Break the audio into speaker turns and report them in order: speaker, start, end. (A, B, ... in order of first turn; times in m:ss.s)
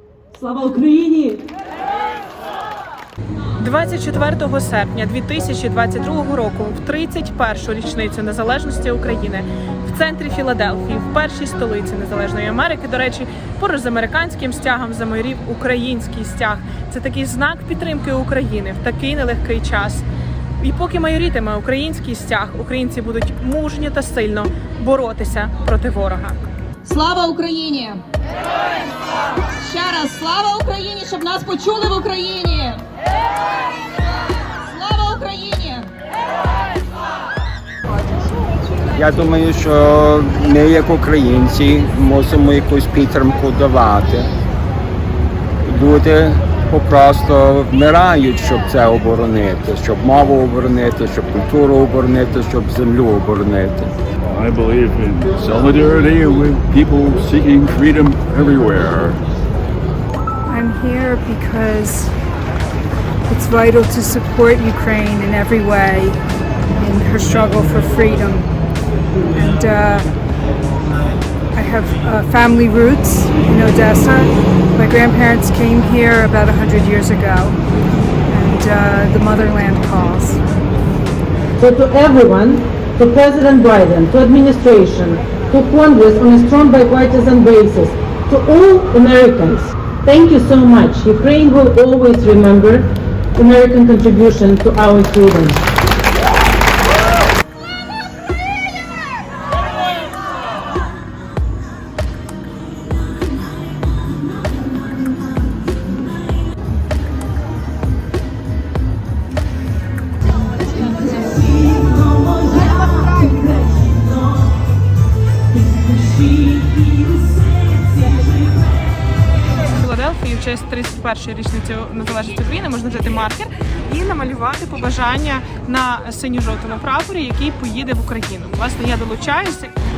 0:00.3-0:01.4 A
0:03.6-0:20.0 B
0:20.6-0:26.4 B
0:26.8-0:28.0 C
0:29.6-0:32.8 C
0:34.6-0:35.9 C
0:38.9-0:44.3 D
0:45.6-0:53.9 D
0:54.3-0:59.2 E
1:00.5-1:02.1 F
1:03.3-1:06.2 F
1:06.7-1:08.5 F
1:09.3-1:10.1 F
1:11.5-1:17.6 F
1:18.3-1:20.4 F
1:21.6-1:35.6 G
1:51.2-1:53.9 A
1:56.3-1:58.4 A
1:59.7-2:09.7 B